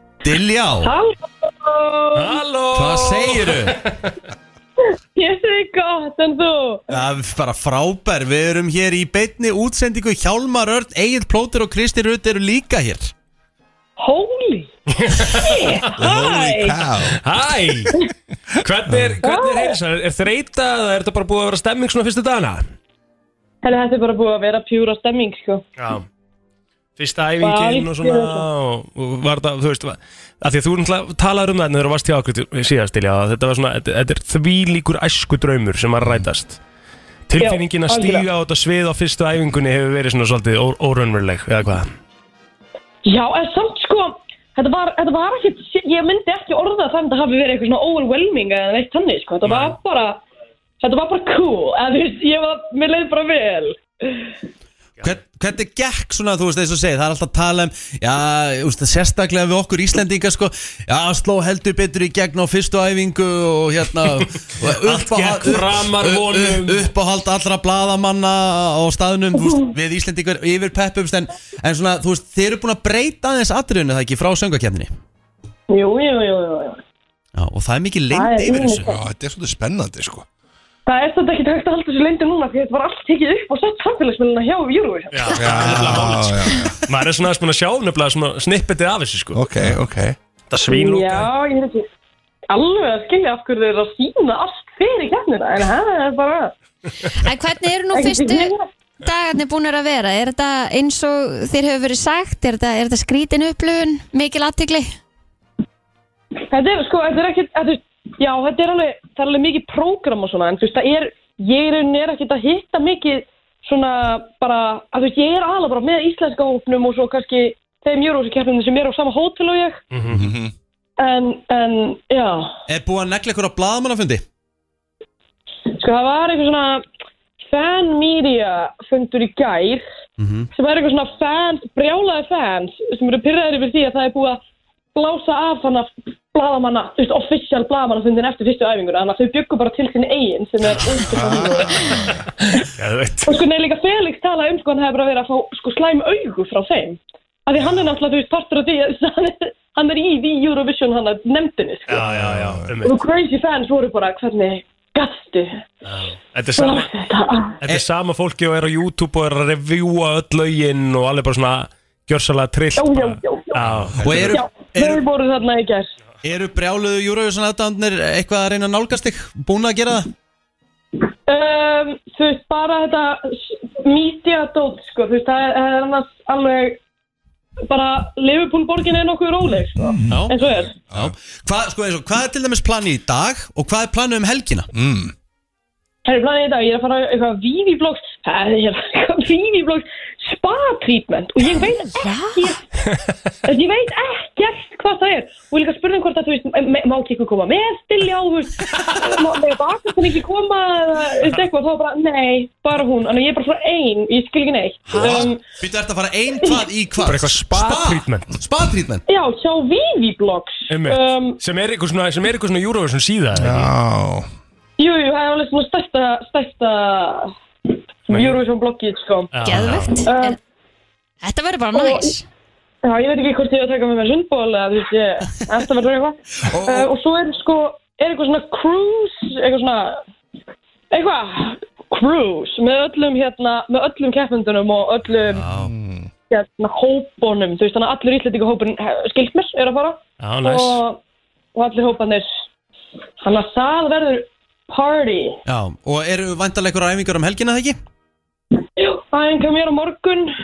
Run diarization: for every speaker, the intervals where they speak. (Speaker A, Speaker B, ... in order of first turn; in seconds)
Speaker A: 0.2-0.9, 2.7-3.8, 6.9-13.1, 55.0-74.9, 77.3-79.0, 122.7-124.2, 130.2-130.5, 164.0-165.0, 166.2-170.1, 180.1-184.7, 204.9-209.0, 226.4-226.9, 235.3-235.7, 245.4-247.8
Speaker B: 0.8-2.4, 5.1-6.9, 14.0-14.7, 15.2-16.8, 19.2-19.8, 23.6-25.6, 27.4-28.4, 37.4-38.2, 43.0-50.2, 50.8-54.3, 75.7-76.8, 78.1-79.0, 80.8-85.4, 90.7-91.8, 92.5-96.5, 97.9-98.6, 106.5-119.8, 121.0-122.5, 125.8-126.8, 127.4-129.8, 130.5-134.4, 134.9-141.9, 143.2-152.0, 152.8-155.6, 156.6-157.6, 162.8-163.6, 164.2-165.9, 171.3-176.8, 177.7-180.7, 186.1-192.6, 193.4-205.4, 209.1-211.4, 214.8-217.3, 218.1-219.3, 220.0-220.3, 221.7-222.1, 222.8-230.0, 230.9-235.5, 236.3-241.0, 241.5-242.2, 243.2-245.4, 248.8-250.3
Speaker C: 2.1-4.1, 14.9-15.9, 17.1-17.9, 18.6-22.6, 25.8-26.1, 27.0-36.6, 37.3-41.9, 49.4-49.8, 64.7-66.9, 85.1-89.4, 90.5-91.3, 119.9-120.3, 141.6-143.4, 151.9-152.9, 155.9-156.9, 157.6-164.3, 207.0-208.3, 210.7-213.7, 218.1-218.4, 219.3-219.9, 240.2-240.8
Speaker D: 15.9-17.2, 18.9-19.2, 78.8-80.2, 85.3-86.8, 89.3-90.2, 120.1-120.5, 141.1-142.1, 152.0-152.7, 163.9-164.2, 184.7-185.1, 213.3-214.3, 235.6-236.1
Speaker E: 97.2-104.9, 192.0-192.3, 219.4-220.4, 221.2-222.2